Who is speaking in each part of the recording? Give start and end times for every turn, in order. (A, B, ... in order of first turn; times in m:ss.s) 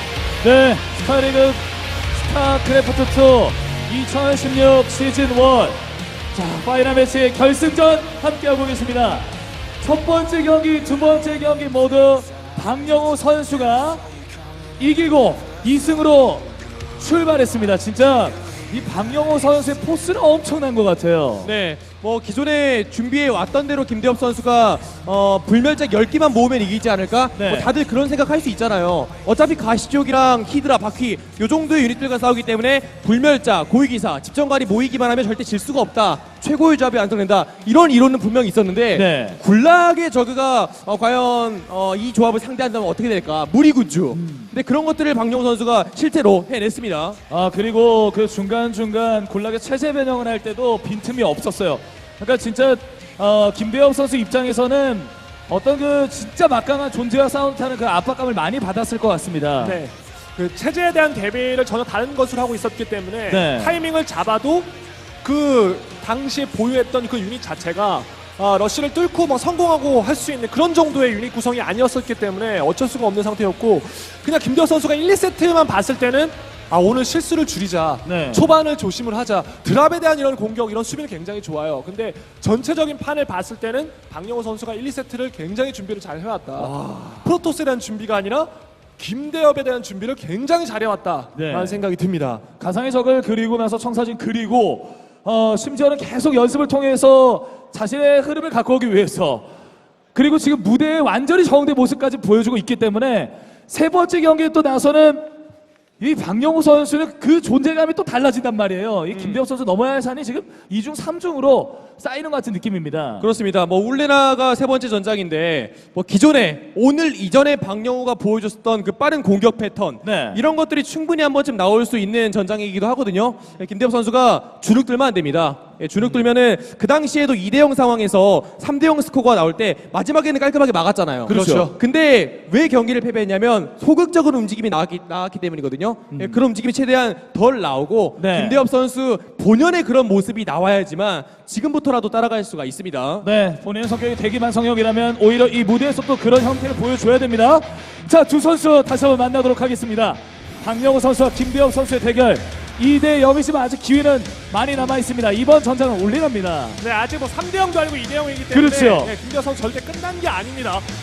0:00.4-0:01.6 A
0:02.2-0:09.3 A
0:09.8-0:14.0 A
0:14.8-0:21.5 A
0:21.4-0:47.2 B
0:27.4-0:27.7 A
0:38.9-0:39.4 A
0:44.1-0:44.5 A
0:47.3-0:59.8 A
0:59.6-1:04.7 C
1:03.3-1:03.8 A
1:05.2-1:32.4 C
1:18.0-1:18.5 A
1:26.7-1:27.1 B
1:31.3-1:31.8 A
1:32.6-1:39.5 A
1:40.1-1:45.3 A
1:46.0-1:53.3 A
1:49.1-1:49.4 B
1:53.2-2:23.2 B
2:00.0-2:00.4 A
2:11.2-2:11.8 C
2:16.1-2:16.4 A
2:18.2-2:18.6 A
2:23.2-2:36.8 A
2:36.8-2:40.8 C
2:38.5-2:39.1 A